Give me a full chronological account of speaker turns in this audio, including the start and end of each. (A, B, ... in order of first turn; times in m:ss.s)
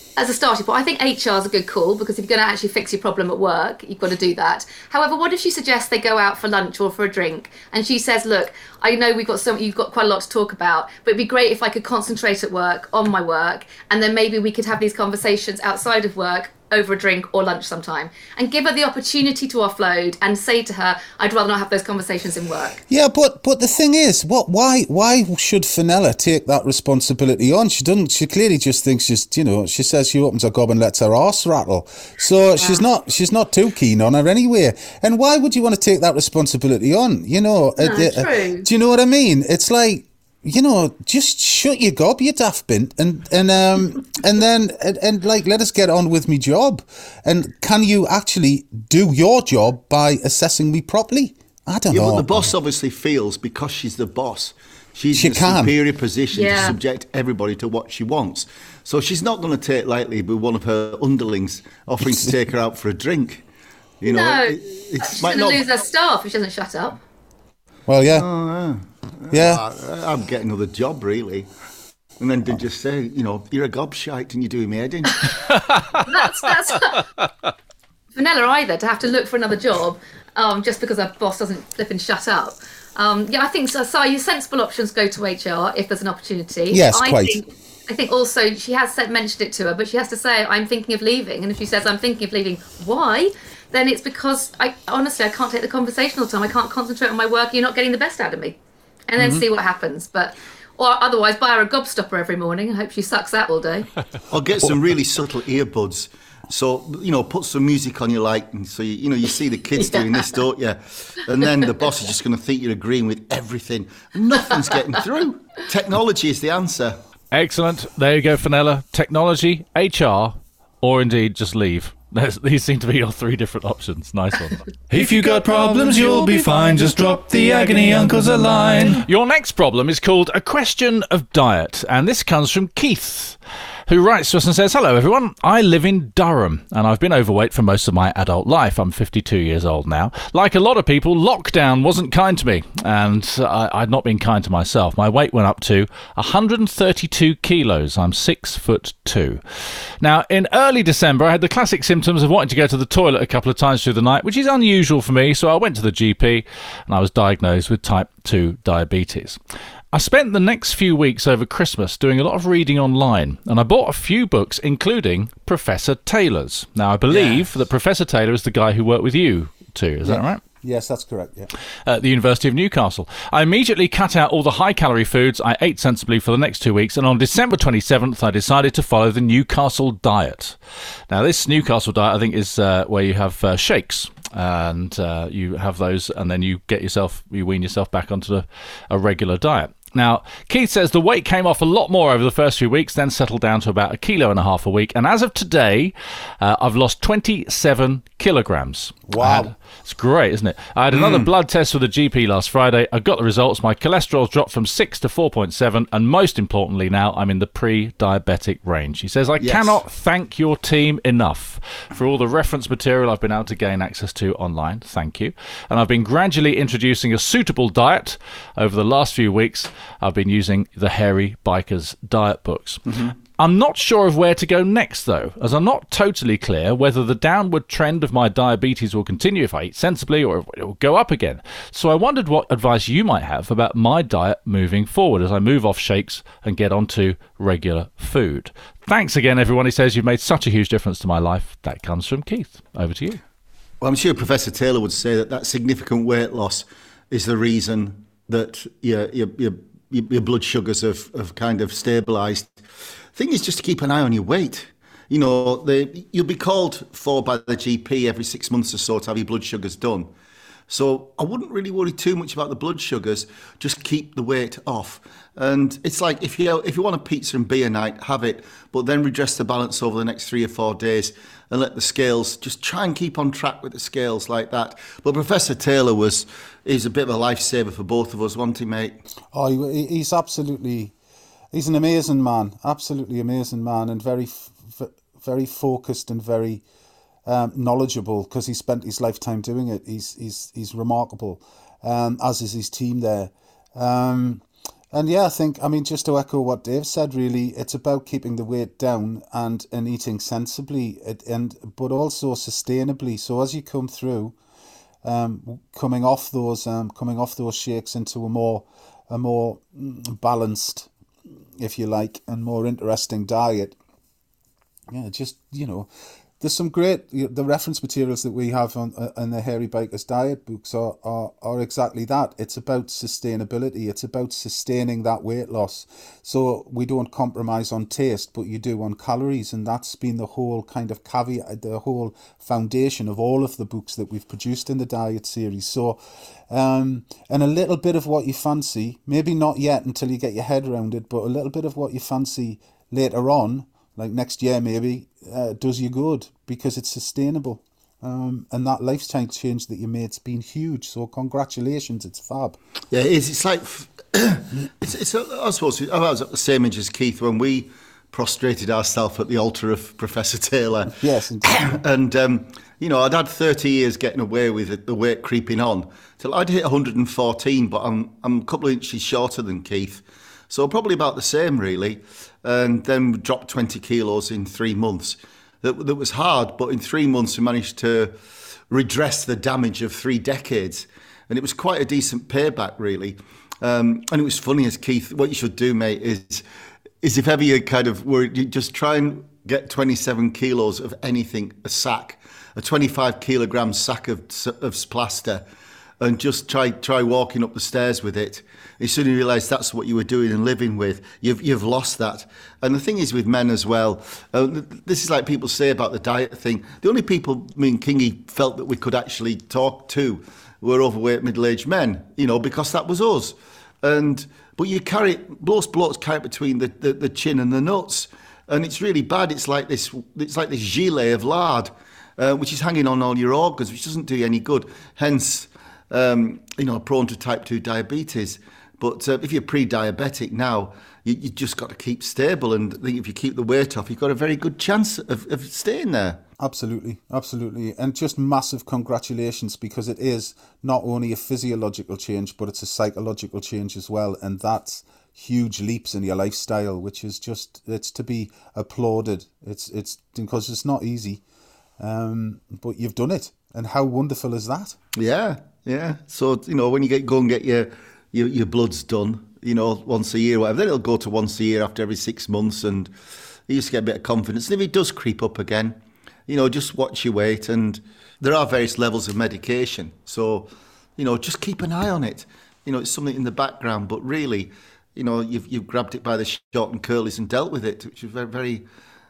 0:00.2-0:22.8 A
0:22.9-0:52.5 B
0:32.6-0:32.8 A
0:37.8-0:38.7 A
0:51.9-1:03.4 C
0:55.1-0:55.7 B
0:56.3-0:56.8 A
1:02.0-1:02.4 B
1:04.0-1:05.6 C
1:04.0-1:07.0 A
1:07.9-1:08.3 B
1:08.1-1:11.5 C
1:09.3-1:09.6 B
1:12.2-1:15.3 C
1:16.0-1:17.0 A
1:18.1-1:38.6 A
1:26.7-1:27.4 B
1:39.1-1:43.9 A
1:39.2-1:39.4 B
1:44.3-1:57.0 C
1:57.3-2:04.7 D
2:04.9-2:09.0 E
2:06.1-2:06.4 D
2:08.7-2:29.4 D
2:30.0-2:39.4 D
2:39.9-2:50.4 D
2:47.1-2:47.4 C
2:50.0-2:51.5 B
2:51.8-3:00.6 D
3:01.1-3:42.8 D
3:19.1-3:19.5 B
3:20.9-3:21.3 C
3:29.4-3:29.8 C
3:42.9-3:43.1 C
3:43.4-4:03.2 D
4:03.8-4:12.5 C
4:13.1-4:20.1 C
4:20.7-4:39.0 C
4:39.3-4:40.9 B
4:41.5-4:46.6 B
4:47.2-5:04.4 B
5:05.0-5:10.9 B
5:11.6-5:13.8 B
5:14.9-5:52.6 B
5:52.9-6:18.1 C
6:00.9-6:01.8 B
6:18.7-6:26.4 C
6:27.0-6:35.4 C
6:36.0-7:16.2 C
7:16.4-7:31.2 B
7:31.8-7:34.8 B
7:35.0-7:42.9 C
7:43.5-7:58.6 C